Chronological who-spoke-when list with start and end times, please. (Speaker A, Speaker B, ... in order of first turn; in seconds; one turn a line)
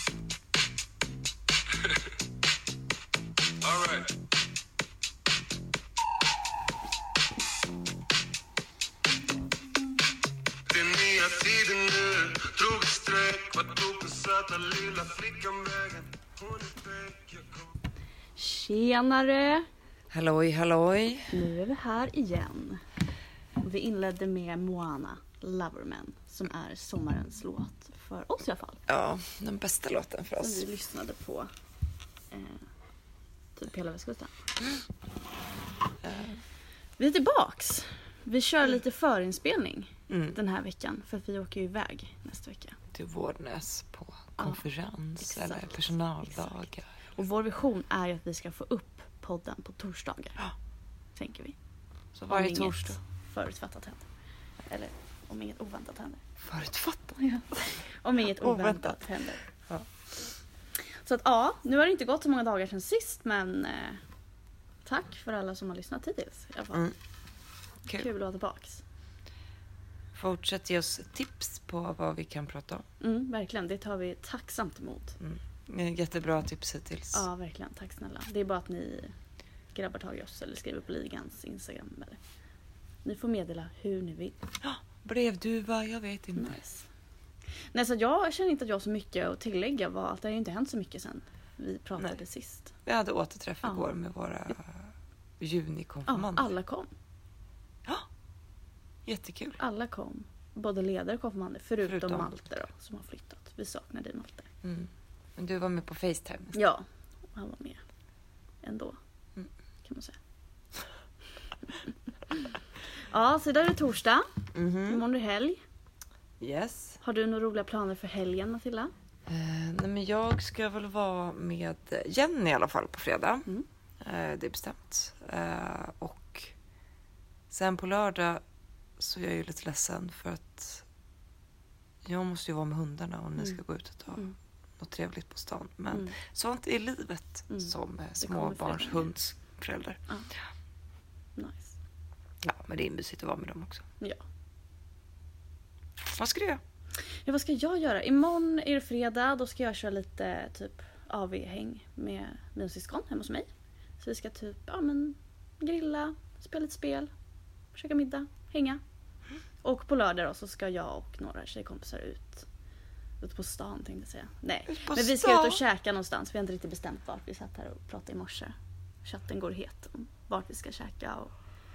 Speaker A: 3.6-4.1
Speaker A: 10.7-17.6
Speaker B: 18.4-19.7
Speaker C: 20.1-21.3
Speaker B: 21.3-22.8
Speaker B: 23.6-28.8
Speaker C: 28.9-30.7
Speaker B: 30.4-31.5
Speaker B: 32.3-32.6
Speaker B: 33.6-34.3
Speaker C: 36.0-36.4
Speaker B: 37.0-42.8
Speaker C: 40.1-40.4
Speaker C: 42.9-46.9
Speaker B: 45.2-45.7
Speaker B: 47.1-50.4
Speaker B: 51.2-51.6
Speaker C: 52.1-53.0
Speaker B: 52.3-54.1
Speaker B: 54.7-56.2
Speaker C: 56.4-57.1
Speaker B: 57.2-59.4
Speaker C: 58.3-59.0
Speaker B: 60.8-64.0
Speaker B: 64.8-66.9
Speaker B: 67.9-68.8
Speaker C: 70.1-72.8
Speaker B: 73.0-75.2
Speaker C: 75.2-77.3
Speaker B: 77.1-79.1
Speaker B: 79.7-82.2
Speaker B: 83.0-84.4
Speaker C: 84.6-86.6
Speaker B: 86.4-86.9
Speaker B: 87.7-92.7
Speaker C: 92.8-96.5
Speaker B: 96.1-96.9
Speaker C: 99.0-99.6
Speaker B: 99.6-104.5
Speaker C: 101.8-102.4
Speaker C: 104.6-106.6
Speaker B: 106.5-107.8
Speaker B: 108.6-109.0
Speaker B: 109.8-110.2
Speaker B: 113.1-114.3
Speaker C: 114.5-115.0
Speaker B: 114.8-115.6
Speaker C: 116.4-117.0
Speaker B: 117.0-118.9
Speaker C: 119.3-123.5
Speaker C: 124.0-126.5
Speaker C: 127.5-128.4
Speaker C: 129.0-130.9
Speaker C: 132.1-134.3
Speaker C: 134.8-140.0
Speaker B: 137.5-139.1
Speaker B: 141.4-141.8
Speaker C: 142.4-143.9
Speaker C: 146.2-146.6
Speaker B: 147.3-153.5
Speaker B: 154.0-157.1
Speaker B: 157.7-158.8
Speaker B: 159.6-162.5
Speaker B: 163.2-168.5
Speaker C: 164.7-165.6
Speaker B: 169.1-171.3